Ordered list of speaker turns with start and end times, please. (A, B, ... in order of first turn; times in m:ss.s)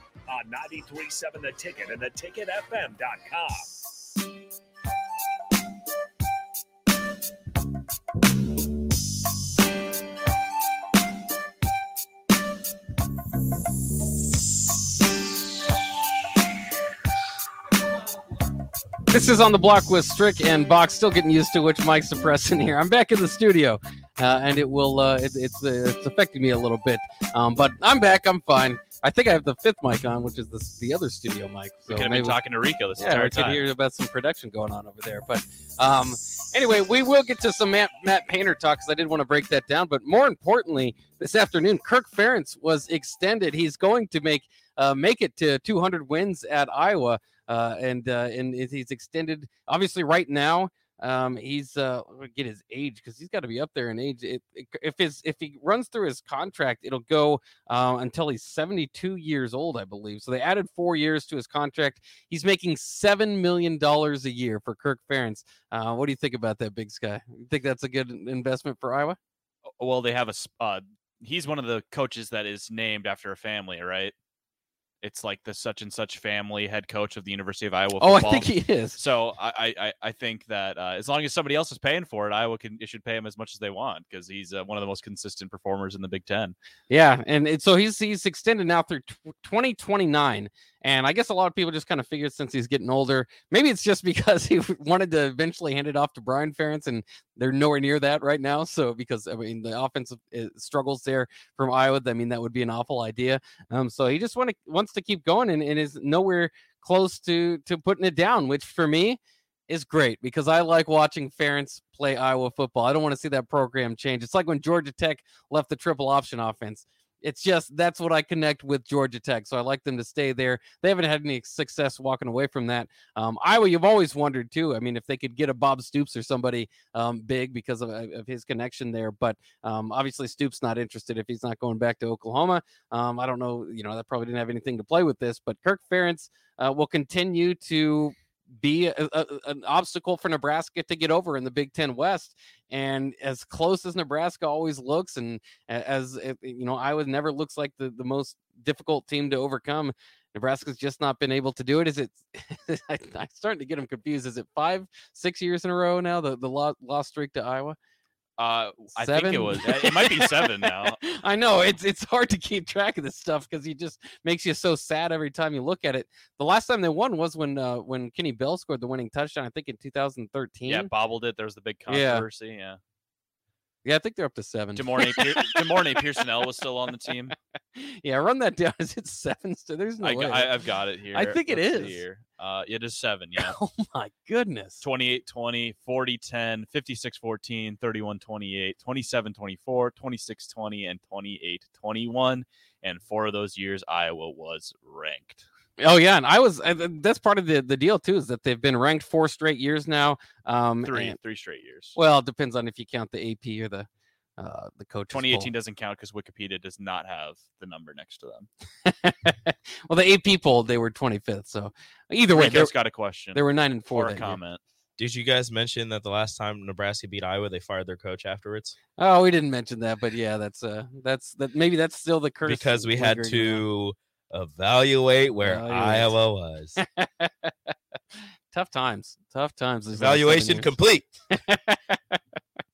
0:00.3-0:03.7 A
0:19.1-0:32.4 B
0:31.9-0:33.7 C
0:33.0-1:09.2 B
1:09.8-1:14.1 C
1:15.0-1:26.5 C
1:18.0-1:19.0 B
1:26.9-2:37.8 B
2:38.4-2:41.0 C
2:39.0-2:50.9 B
2:50.6-2:52.8 C
2:51.9-2:52.2 B
2:53.8-2:56.3 B
2:54.7-2:57.3 C
2:57.7-3:02.0 B
3:00.0-3:03.5 C
3:03.4-3:04.8 B
3:04.8-3:15.4 C
3:15.8-3:21.2 B
3:20.8-3:21.9 C
3:22.0-3:25.5 B
3:25.1-3:28.5 C
3:28.8-3:32.7 B
3:32.3-3:34.6 C
3:33.3-3:34.4 B
3:35.0-3:38.8 D
3:39.0-3:43.6 B
3:42.4-3:46.8 D
3:45.4-3:46.1 B
3:46.8-3:47.5 B
3:48.5-3:50.7 B
3:49.9-3:51.1 D
3:51.3-3:52.2 B